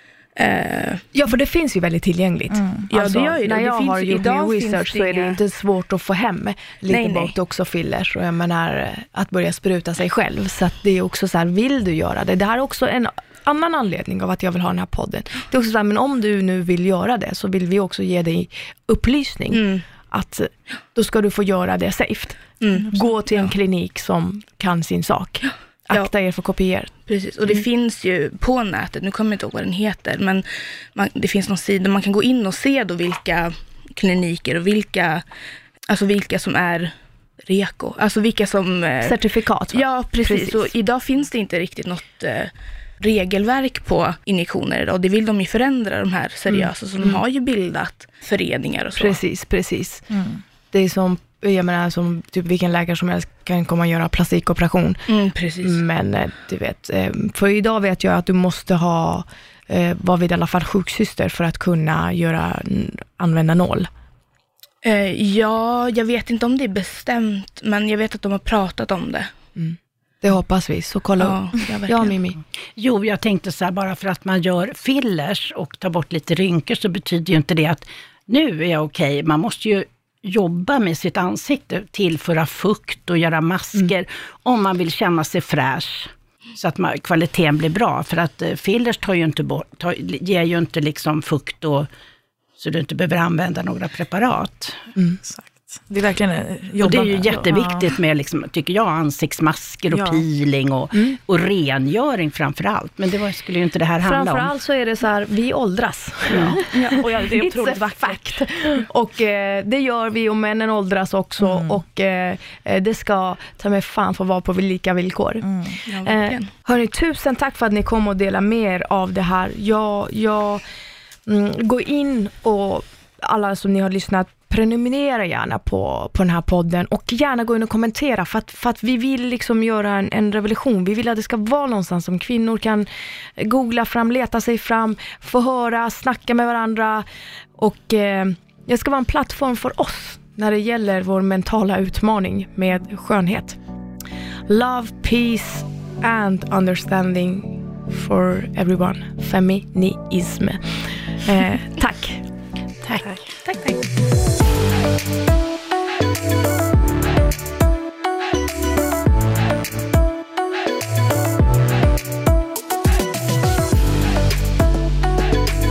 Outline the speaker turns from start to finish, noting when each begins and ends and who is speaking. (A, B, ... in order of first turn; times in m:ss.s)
0:00.4-0:01.0 A
0:01.1-0:26.9 B
0:02.5-0:02.9 C
0:02.9-0:05.4 A
0:06.9-0:07.3 A
0:19.5-0:19.8 A
0:22.6-0:23.5 A
0:27.0-0:35.2 A
0:35.9-0:39.2 A
0:39.0-0:40.7 B
0:39.7-0:49.2 A
0:46.5-0:47.2 B
0:48.9-0:50.1 B
0:50.1-0:50.4 C
0:50.7-0:55.1 B
0:55.1-0:55.8 A
0:55.6-1:03.9 B
1:04.8-1:09.3 A
1:09.6-1:12.4 B
1:11.2-1:12.1 A
1:12.8-1:31.9 D
1:32.6-1:34.8 D
1:35.2-1:37.9 C
1:36.8-1:44.5 D
1:39.9-1:40.2 C
1:44.0-2:00.6 B
1:46.3-1:46.6 D
1:46.6-1:48.4 C
1:51.4-1:51.8 C
1:55.4-1:55.8 C
1:55.8-1:56.5 A
2:01.2-2:17.0 B
2:17.6-2:23.6 B
2:24.5-2:32.2 B
2:32.8-2:33.2 D
2:33.4-2:33.8 A